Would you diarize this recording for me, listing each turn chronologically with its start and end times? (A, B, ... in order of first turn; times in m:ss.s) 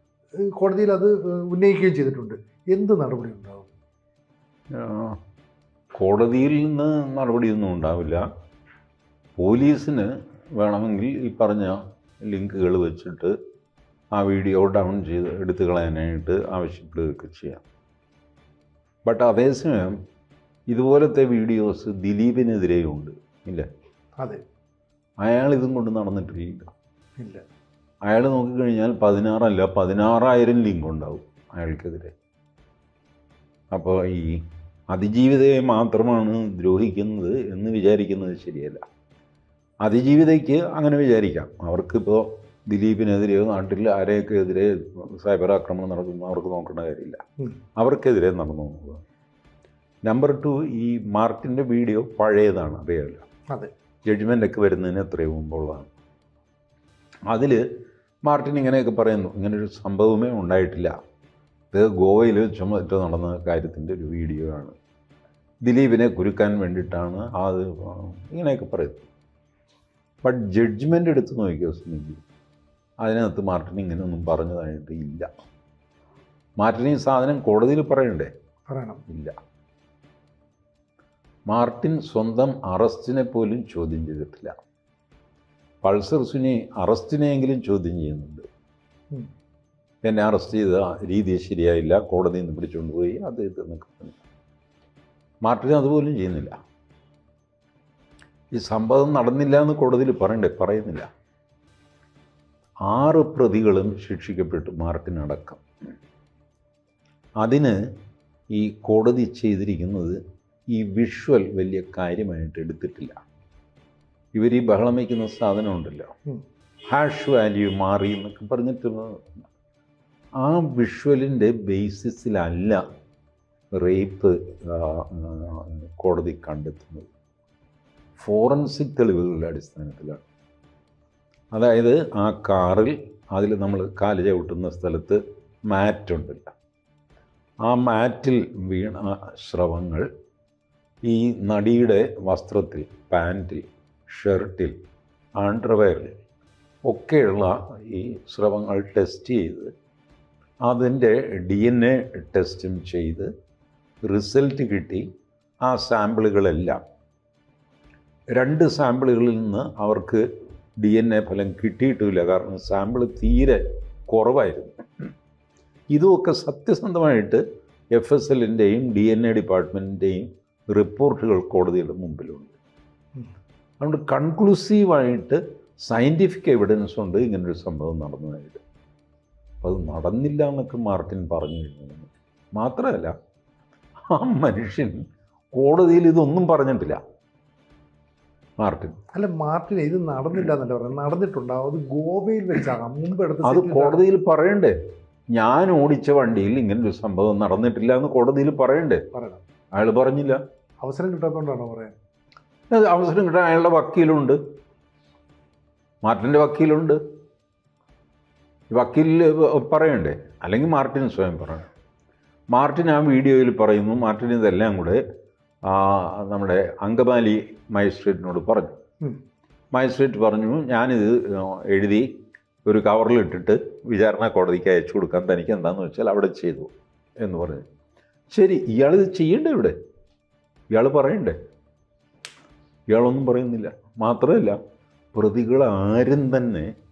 0:00.4-0:03.7 A
0:04.7-0:05.2 B
0:05.9-0:08.2 B
0:09.4-0:13.3 B
0:14.1-0:17.6 B
0:19.0-0:20.0 B
0:20.7-0:23.7 B
0:25.2-0:26.7 B
0:27.2-0:27.4 A
0:28.1-0:32.1 B
0:33.7-0:38.8 B
0:39.8-0:47.2 B
0:47.8-0:49.0 B
0:50.0-0:53.2 B
0:54.1-0:55.9 B
0:57.3-0:57.6 B
0:58.3-1:00.9 B
1:01.7-1:04.7 B
1:05.6-1:09.1 B
1:10.2-1:12.2 B
1:13.0-1:15.3 B
1:16.6-1:18.3 B
1:18.7-1:19.0 A
1:21.5-1:24.5 B
1:25.8-1:28.5 B
1:30.0-1:34.2 B
1:35.4-1:36.6 B
1:38.5-1:41.1 B
1:42.9-1:45.6 B
1:47.4-1:47.8 B
1:48.5-1:50.2 B
1:50.7-1:53.2 B
1:54.4-1:56.1 B
1:56.9-1:59.3 B
2:00.4-2:02.8 B
2:03.7-2:07.1 B
2:08.2-2:10.2 B
2:11.5-2:16.5 B
2:17.6-2:20.1 B
2:21.0-2:24.7 B
2:25.4-2:26.2 B
2:26.9-2:29.7 B
2:30.6-2:33.3 B
2:34.0-2:35.1 B
2:35.6-2:36.8 B
2:38.3-2:40.2 B
2:40.8-2:44.8 B
2:45.9-2:47.4 B
2:47.9-2:52.6 B
2:53.8-2:58.6 B
2:59.6-3:03.1 B
3:04.1-3:05.0 B
3:05.6-3:07.0 B
3:08.6-3:09.0 B
3:09.1-3:14.0 A
3:13.4-3:14.7 B
3:15.3-3:19.0 B
3:19.1-3:19.4 A
3:19.7-3:20.4 B
3:20.8-3:21.9 A
3:22.7-3:24.4 B
3:26.0-3:27.0 B
3:28.7-3:31.7 B
3:32.5-3:35.0 B
3:35.6-3:38.8 B
3:39.7-3:42.1 B
3:42.6-3:47.6 B
3:48.3-3:49.8 B
3:50.7-3:51.4 B
3:52.9-3:54.6 B
3:55.1-3:56.7 B